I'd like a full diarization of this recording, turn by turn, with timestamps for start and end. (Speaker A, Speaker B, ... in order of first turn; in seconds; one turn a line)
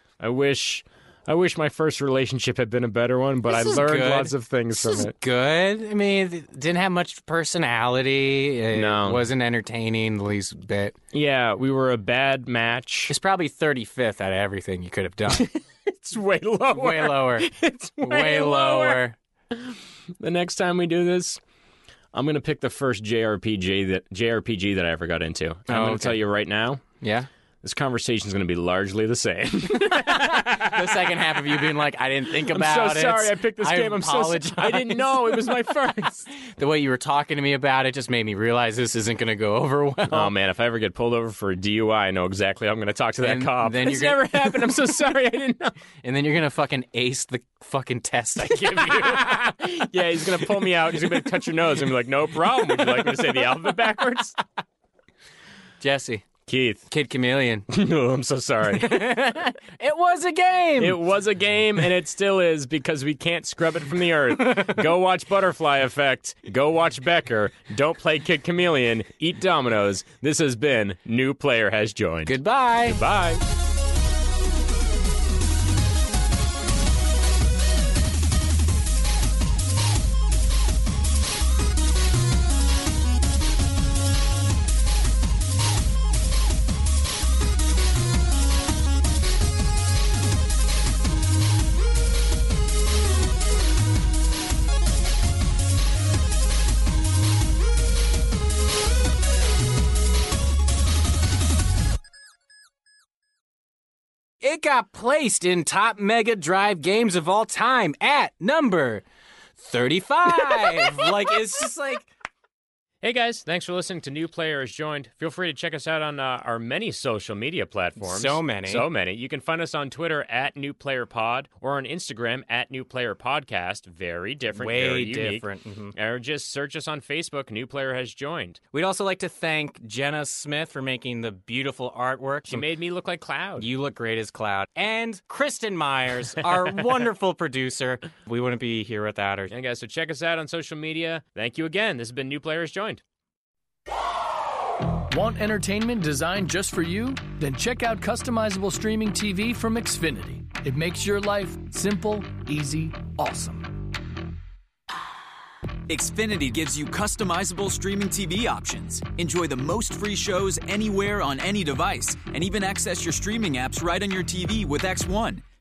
Speaker A: 0.2-5.1
Speaker B: 3.5-10.9
Speaker A: 8.7-9.2
Speaker A: 11.1-13.1
Speaker B: 13.1-15.5
Speaker A: 15.3-21.4
Speaker B: 16.7-17.5
Speaker B: 18.0-19.1
Speaker A: 22.1-26.8
Speaker B: 25.7-26.2
Speaker B: 27.0-27.3
Speaker A: 27.6-31.4
Speaker B: 30.4-35.6
Speaker A: 32.3-36.3
Speaker B: 36.3-40.3
Speaker A: 40.1-45.8
Speaker B: 43.2-44.7
Speaker B: 46.0-49.4
Speaker A: 48.4-54.4
Speaker B: 55.8-56.3
Speaker A: 56.5-56.9
Speaker B: 56.9-57.7
Speaker A: 57.7-59.2
Speaker B: 58.7-61.0
Speaker A: 60.8-73.4
Speaker B: 72.2-73.0
Speaker B: 104.4-109.0
Speaker B: 109.6-112.1
Speaker A: 113.0-128.6
Speaker B: 118.0-118.8
Speaker B: 124.5-125.9
Speaker B: 128.7-132.7
Speaker A: 132.5-133.7
Speaker B: 133.6-139.5
Speaker A: 139.5-143.0
Speaker C: 145.1-153.8
Speaker D: 155.9-165.4